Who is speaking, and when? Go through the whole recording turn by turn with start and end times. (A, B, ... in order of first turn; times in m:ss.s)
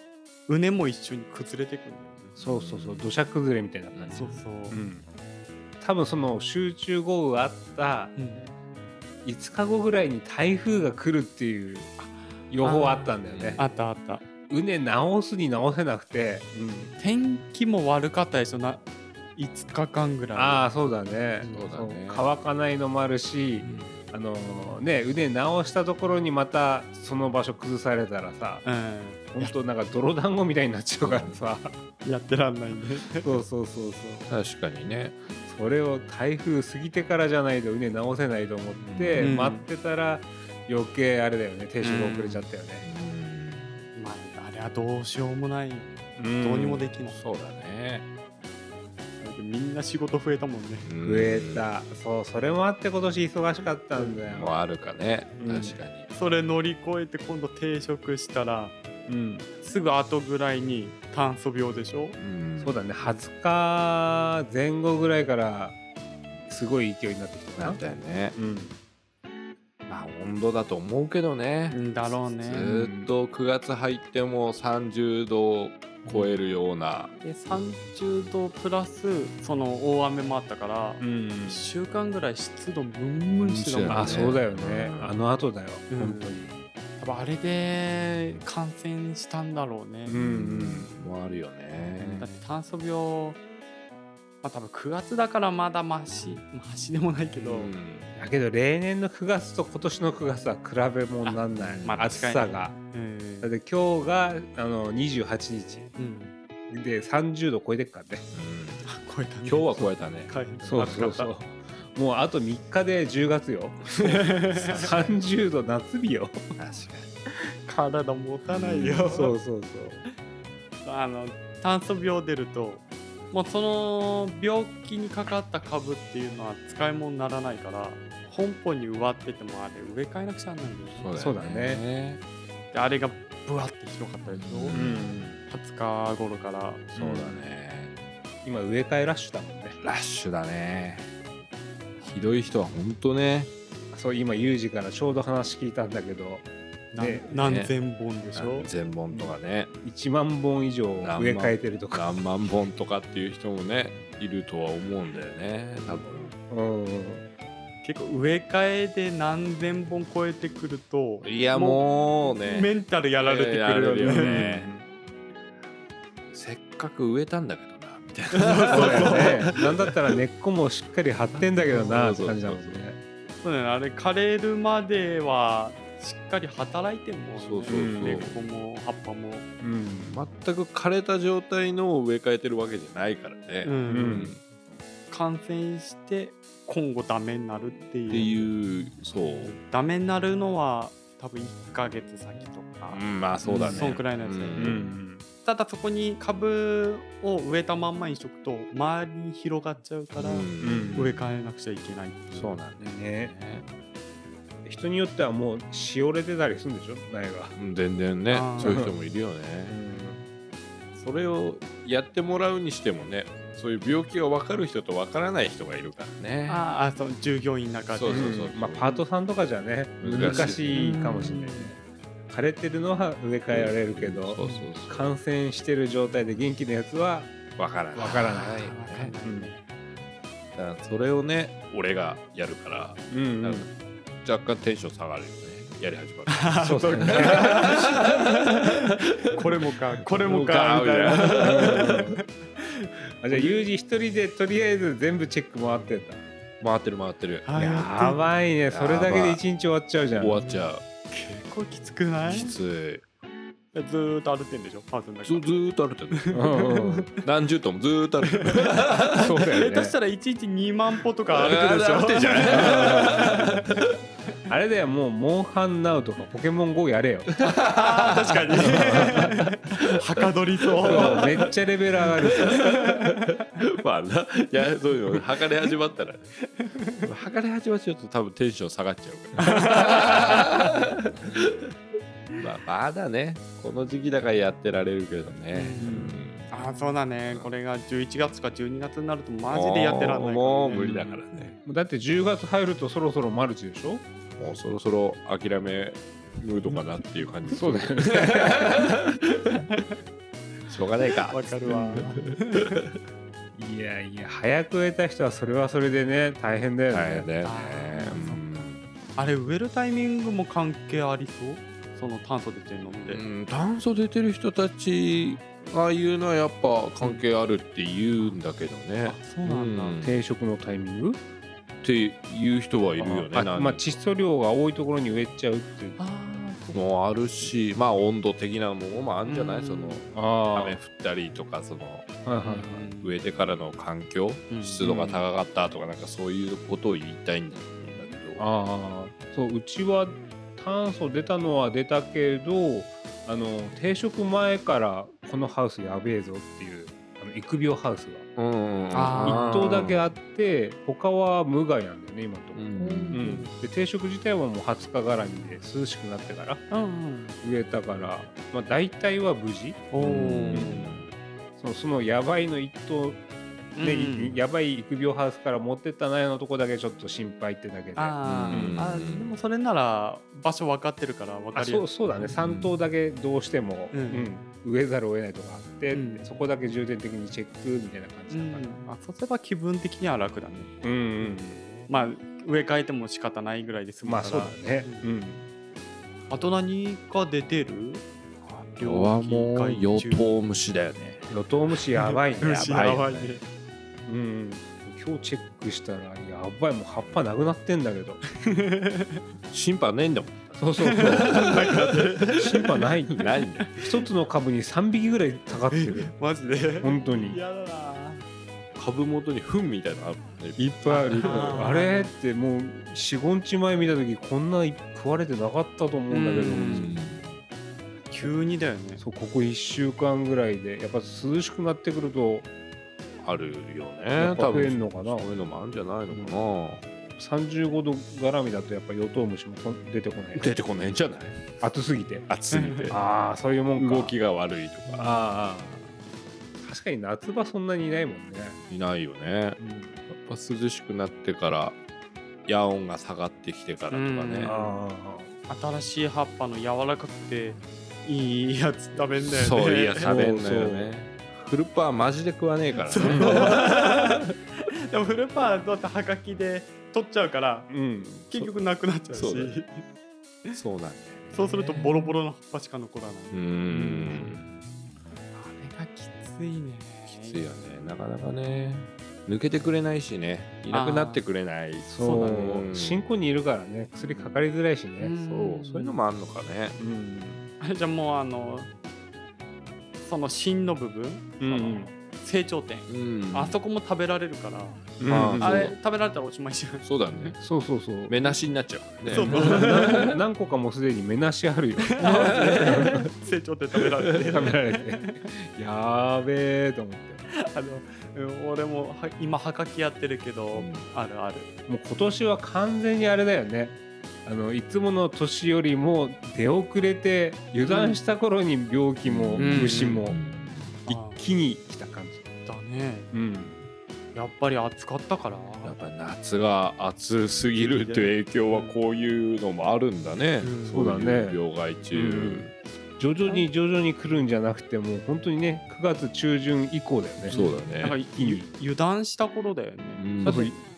0:00.5-0:02.4 A
0:02.4-0:03.1 B
0:02.4-0:05.0 C
0:03.9-0:04.4 B
0:04.1-0:04.8 A
0:05.8-0:08.1 C
0:08.2-0:08.5 A
0:09.2-0:13.6 C
0:12.6-0:14.2 A
0:13.3-0:13.7 B
0:14.5-0:16.9 C
0:17.0-0:18.8 A
0:19.4-0:20.7 A
0:20.3-0:28.6 C
0:21.4-0:21.7 A
0:21.5-0:22.3 B
0:23.6-0:23.9 B
0:28.6-0:29.5 A
0:29.3-0:31.8 C
0:31.0-0:31.4 B
0:32.0-0:33.4 A
0:33.2-0:34.3 C
0:34.3-0:35.2 B
0:35.4-0:42.9 C
0:38.8-0:39.3 B
0:39.2-0:39.7 A
0:41.8-0:42.5 A
0:42.8-0:43.8 B
0:43.9-0:47.2 A
0:46.2-0:46.9 C
0:47.0-0:48.1 B
0:49.2-0:50.9 A
0:50.8-0:51.7 B
0:51.0-0:54.6 C
0:54.2-0:56.1 B
0:55.4-0:55.8 C
0:56.1-0:58.8 A
0:59.1-0:59.5 C
0:59.6-1:02.2 A
1:02.2-1:02.8 B
1:02.6-1:05.8 C
1:06.5-1:07.8 C
1:07.6-1:08.4 B
1:08.4-1:08.8 C
1:09.9-1:17.1 B
1:11.7-1:12.7 A
1:12.6-1:13.1 C
1:17.2-1:24.4 A
1:21.0-1:21.7 C
1:23.3-1:25.2 B
1:23.9-1:26.5 C
1:25.9-1:30.2 A
1:30.0-1:30.9 C
1:30.1-1:32.3 B
1:32.0-1:32.3 C
1:32.2-1:33.4 A
1:34.4-1:37.7 A
1:37.4-1:38.1 B
1:38.2-1:42.8 C
1:41.2-1:43.5 A
1:41.5-1:42.1 B
1:43.4-1:45.9 C
1:46.0-1:46.4 A
1:46.7-1:48.3 C
1:48.3-1:48.9 B
1:48.8-1:51.3 A
1:49.4-1:50.3 B
1:50.6-1:54.0 C
1:53.8-1:55.2 B
1:54.0-1:54.9 A
1:54.8-1:56.6 C
1:56.6-1:57.1 B
1:57.6-1:59.3 A
1:58.5-1:59.2 B
1:59.1-2:00.0 C
2:00.8-2:11.1 A
2:10.9-2:12.2 B
2:11.2-2:11.8 C
2:12.7-2:14.9 A
2:14.3-2:15.3 B
2:14.7-2:15.4 C
2:15.5-2:16.9 A
2:16.9-2:18.0 B
2:17.0-2:17.4 C
2:18.4-2:19.8 C
2:19.8-2:21.1 B
2:22.0-2:22.3 A
2:22.1-2:23.5 B
2:23.9-2:27.3 C
2:26.9-2:28.7 A
2:27.3-2:27.8 B
2:28.3-2:29.7 B
2:29.8-2:32.2 C
2:31.0-2:36.3 B
2:35.8-2:37.2 C
2:37.8-2:44.5 A
2:41.2-2:44.7 B
2:44.0-2:44.8 C
2:46.3-2:50.0 B
2:48.3-2:49.5 A
2:48.7-2:53.0 C
2:51.3-2:52.0 A
2:51.6-2:52.8 B
2:53.4-2:59.4 A
2:57.4-2:58.4 B
2:57.7-2:58.3 C
2:59.6-3:00.2 C
3:00.1-3:04.3 B
3:03.6-3:04.3 A
3:03.9-3:04.4 C
3:05.1-3:08.5 A
3:08.1-3:09.6 B
3:09.4-3:13.0 A
3:12.9-3:15.0 B
3:13.4-3:13.9 C
3:13.6-3:14.8 A
3:14.6-3:15.2 C
3:15.4-3:22.6 A
3:20.2-3:21.3 B
3:20.6-3:21.2 C
3:22.3-3:23.7 B
3:22.8-3:23.3 C
3:24.6-3:27.6 C
3:27.5-3:29.8 B
3:28.3-3:28.8 A
3:28.6-3:29.0 C
3:29.7-3:30.2 C
3:29.9-3:30.2 A
3:31.0-3:36.7 B
3:36.5-3:39.0 A
3:37.9-3:38.9 B
3:38.1-3:41.8 C
3:40.0-3:41.4 B
3:40.2-3:41.8 A
3:42.3-3:47.3 C
3:43.5-3:45.2 B
3:44.4-3:44.7 A
3:47.6-3:49.2 B
3:48.0-3:48.6 C
3:48.0-3:49.6 A
3:49.2-3:49.5 C
3:50.5-3:53.7 B
3:53.1-3:53.7 C
3:54.2-3:58.8 B
3:56.3-3:58.7 A
3:56.6-3:57.9 C
3:59.3-4:03.6 A
4:00.2-4:02.2 C
4:00.2-4:02.2 B
4:03.2-4:06.2 C
4:06.6-4:08.0 B
4:07.4-4:08.3 A
4:07.7-4:10.4 C
4:08.7-4:09.4 B
4:10.2-4:10.8 B
4:10.4-4:12.6 A
4:12.2-4:13.0 B
4:13.7-4:16.8 A
4:15.2-4:19.3 B
4:16.3-4:17.1 C
4:18.2-4:18.8 A
4:19.2-4:20.0 C
4:19.6-4:23.9 A
4:21.3-4:23.7 B
4:22.5-4:23.5 C
4:24.5-4:27.3 C
4:27.3-4:29.8 B
4:27.4-4:31.4 A
4:28.7-4:29.3 C
4:30.8-4:31.4 B
4:30.8-4:32.5 C
4:32.0-4:36.3 B
4:32.4-4:33.2 A
4:36.5-4:37.1 A
4:37.0-4:41.5 B
4:39.4-4:40.5 A
4:42.4-4:46.7 B
4:45.5-4:51.2 A
4:47.3-4:47.5 B
4:49.5-4:51.6 B
4:50.7-4:51.1 C
4:51.6-4:54.0 C
4:54.4-4:59.6 B
4:57.5-4:58.9 C
5:00.7-5:02.4 B
5:01.2-5:02.8 A
5:03.5-5:07.3 C
5:06.9-5:08.8 B
5:07.4-5:13.2 A
5:12.9-5:20.2 B
5:18.0-5:20.0 A
5:20.0-5:21.2 C
5:21.8-5:24.0 B
5:23.0-5:26.0 C
5:26.0-5:26.9 A
5:26.7-5:32.1 B
5:29.2-5:30.1 A
5:30.1-5:30.8 C
5:32.2-5:32.9 C
5:32.4-5:33.2 A
5:33.0-5:38.4 B
5:34.5-5:35.2 A
5:38.4-5:48.2 C
5:48.4-5:50.0 B
5:48.9-5:49.7 A
5:49.2-5:56.6 C
5:52.5-5:53.2 B
5:53.1-5:53.6 A
5:56.7-5:57.4 A
5:57.4-5:59.9 C
5:59.9-6:00.9 A
6:00.0-6:01.1 B
6:00.5-6:00.9 C
6:01.6-6:03.2 C
6:03.8-6:04.4 A
6:03.8-6:08.8 C
6:07.9-6:12.3 A
6:08.2-6:09.4 B
6:11.5-6:18.9 C
6:12.4-6:12.8 B
6:13.9-6:14.3 A
6:15.9-6:16.3 A
6:18.3-6:25.1 A
6:20.8-6:21.6 C
6:24.0-6:25.4 C
6:26.3-6:28.0 A
6:28.5-6:31.4 B
6:28.8-6:30.4 A
6:31.3-6:32.8 C
6:32.0-6:33.4 A
6:32.6-6:33.4 B
6:34.0-6:38.2 C
6:37.0-6:37.2 B
6:38.4-6:39.2 A
6:39.5-6:42.5 B
6:40.6-6:41.6 C
6:40.8-6:42.6 A
6:42.3-6:46.1 C
6:43.1-6:43.8 B
6:43.2-6:43.8 A
6:45.7-6:48.2 A
6:46.8-6:47.4 C
6:48.8-6:51.8 B
6:50.6-6:52.1 A
6:51.0-6:57.0 C
6:56.1-6:57.0 A
6:56.5-6:57.3 B
6:58.1-6:59.0 A
6:59.0-7:02.5 C
7:03.2-7:06.8 B
7:04.2-7:05.4 C
7:07.2-7:10.5 C
7:10.4-7:11.4 B
7:11.6-7:12.3 C
7:12.3-7:13.0 B
7:12.5-7:13.0 A
7:12.9-7:14.1 C
7:13.8-7:15.2 B
7:14.9-7:15.9 C
7:16.6-7:18.6 C
7:18.7-7:21.8 B
7:19.6-7:20.0 C
7:22.5-7:24.5 B
7:23.9-7:24.8 A
7:24.4-7:25.3 C
7:25.5-7:30.1 A
7:29.2-7:34.2 B
7:30.0-7:30.9 C
7:32.8-7:34.3 A
7:33.0-7:33.6 C
7:34.9-7:37.7 A
7:37.7-7:38.3 C
7:38.2-7:39.6 B
7:38.3-7:39.8 A
7:40.5-7:42.0 B
7:41.3-7:44.6 A
7:43.3-7:44.4 B
7:43.7-7:44.4 C
7:45.3-7:47.4 A
7:47.1-7:53.0 B
7:50.7-7:51.2 A
7:51.8-7:55.1 C
7:52.0-7:52.5 A
7:54.0-7:54.5 B
7:55.0-7:56.0 A
7:55.2-7:56.8 B
7:56.8-7:57.5 C
7:57.6-7:58.7 A
8:00.0-8:07.4 A
8:01.4-8:01.9 C
8:02.9-8:03.6 B
8:05.0-8:05.7 C
8:05.0-8:05.8 B
8:06.8-8:07.4 B
8:07.4-8:08.2 C
8:08.1-8:10.2 B
8:09.1-8:10.1 A
8:09.1-8:13.0 C
8:11.8-8:15.2 A
8:12.0-8:13.0 B
8:14.3-8:17.2 C
8:17.5-8:21.5 A
8:20.5-8:20.9 B
8:21.7-8:30.2 C
8:27.6-8:28.0 A
8:29.0-8:30.8 B
8:29.4-8:30.0 A
8:30.9-8:31.2 A
8:30.9-8:32.2 C
8:32.4-8:33.1 A
8:33.1-8:33.6 C
8:34.1-8:35.8 A
8:35.6-8:42.5 B
8:37.6-8:38.8 A
8:40.4-8:40.8 A
8:40.7-8:41.4 C
8:41.9-8:47.6 C
8:47.2-8:50.6 A
8:47.3-8:48.0 B
8:48.1-8:48.5 C
8:50.0-8:50.5 B
8:50.2-8:50.6 C